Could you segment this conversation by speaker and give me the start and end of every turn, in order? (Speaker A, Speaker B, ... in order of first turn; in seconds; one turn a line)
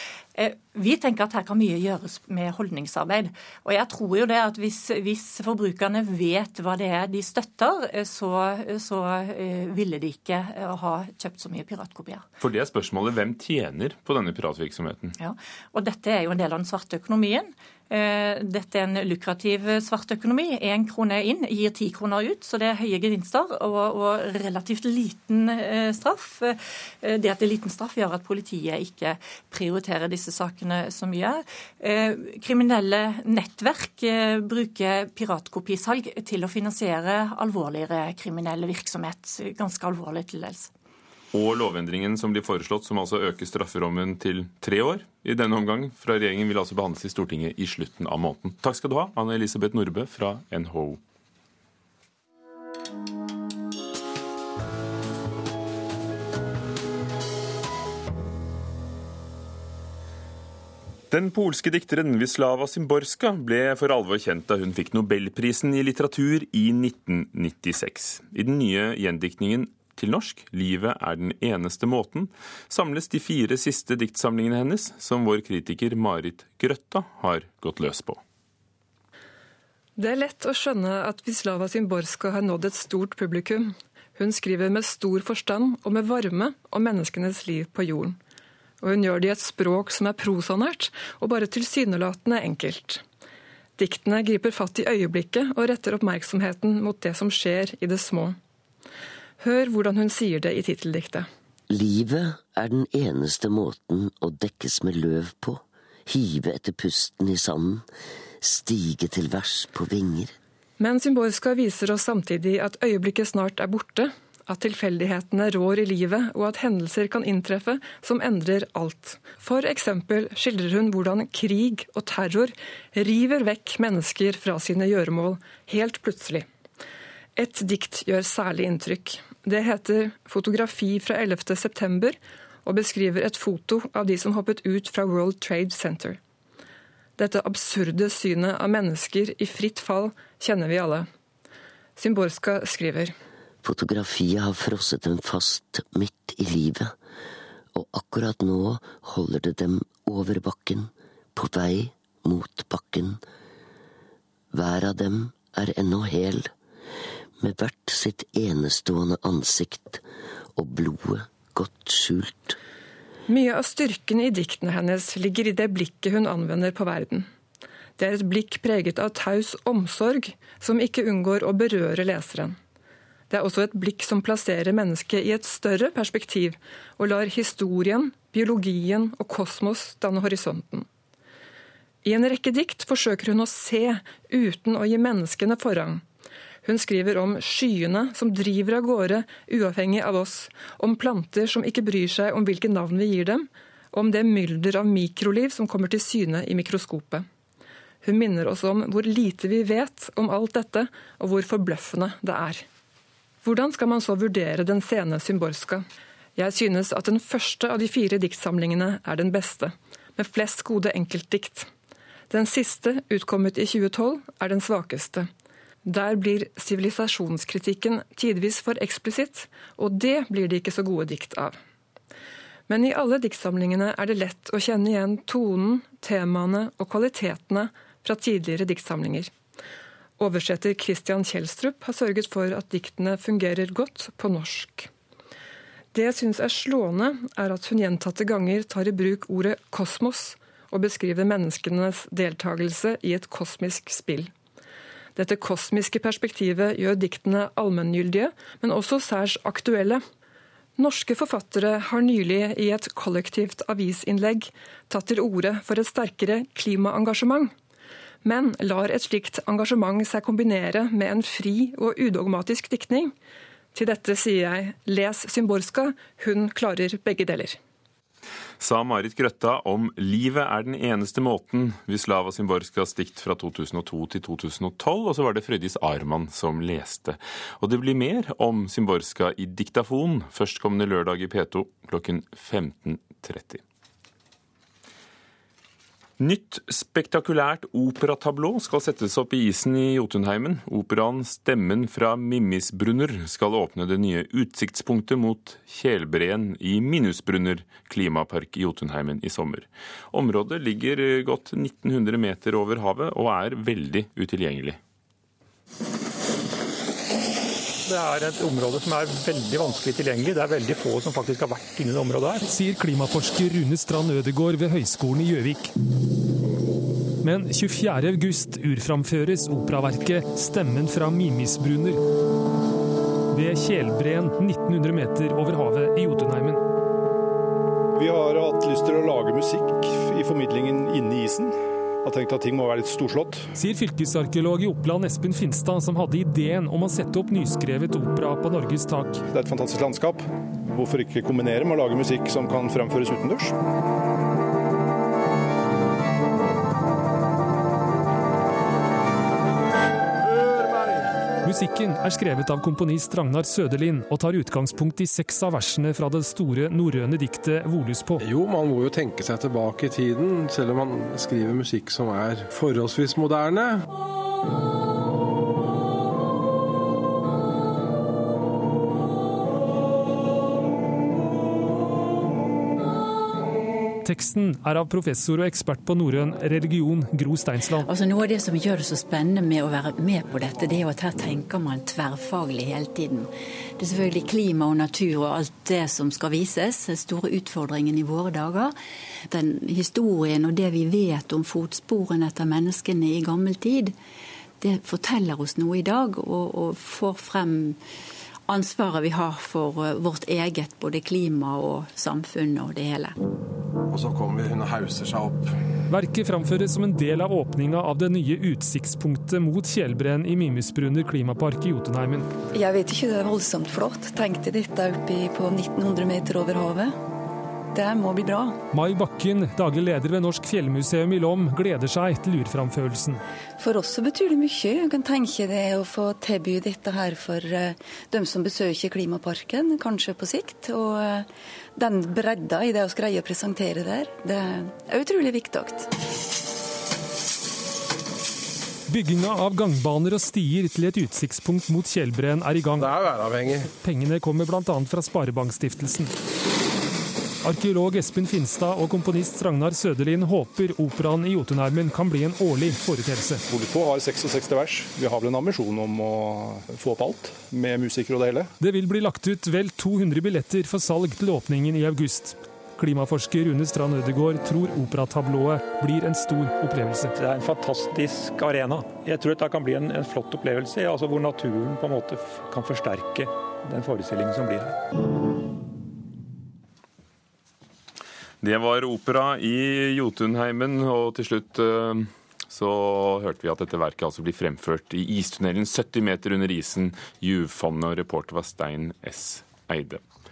Speaker A: 0.3-12.2
Speaker B: 12.4-15.1
Speaker A: 15.2-40.7
Speaker B: 41.3-51.0
Speaker B: 61.1-78.2
Speaker C: 80.0-88.2
Speaker C: 88.8-93.0
Speaker C: 93.8-98.4
Speaker C: 99.4-101.3
Speaker D: 101.7-107.8
Speaker D: 108.4-110.3
Speaker C: 110.8-126.5
Speaker C: 127.3-136.2
Speaker C: 137.2-141.1
Speaker C: 142.0-143.1
Speaker D: 143.6-147.0
Speaker D: 147.7-153.2
Speaker D: 154.5-156.5
Speaker D: 157.4-160.0
Speaker D: 160.6-162.6
Speaker C: 163.3-167.3
Speaker C: 168.0-172.6
Speaker C: 173.3-180.9
Speaker C: 182.0-186.0
Speaker C: 186.6-197.2
Speaker C: 198.0-202.6
Speaker C: 203.4-205.8
Speaker C: 206.3-211.7
Speaker C: 212.3-215.3
Speaker C: 215.8-221.6
Speaker C: 222.7-229.3
Speaker C: 230.2-234.9
Speaker C: 235.9-244.3
Speaker C: 245.2-250.0
Speaker C: 250.8-257.5
Speaker C: 258.2-263.1
Speaker C: 263.7-267.6
Speaker B: 268.6-283.6
Speaker B: 286.2-304.8
Speaker E: 307.9-312.4
Speaker F: 312.4-315.7
Speaker F: 317.2-322.0
Speaker F: 323.3-326.6
Speaker G: 327.9-333.5
Speaker F: 333.6-339.2
Speaker G: 339.3-343.5
Speaker F: 351.4-358.2
Speaker H: 358.2-363.8
Speaker F: 374.0-377.9
Speaker I: 377.8-388.8
Speaker I: 389.3-393.9
Speaker I: 394.6-397.8
Speaker I: 398.5-403.1
Speaker H: 403.9-405.5
Speaker F: 405.9-412.3
Speaker J: 412.5-416.9
Speaker J: 417.7-418.6
Speaker F: 418.7-423.2
Speaker J: 423.6-435.9
Speaker F: 438.9-442.9
Speaker H: 442.8-443.7
Speaker F: 443.8-446.1
Speaker F: 447.4-453.4
Speaker G: 453.5-458.5
Speaker F: 458.6-467.1
Speaker E: 467.1-474.8
Speaker B: 478.4-490.0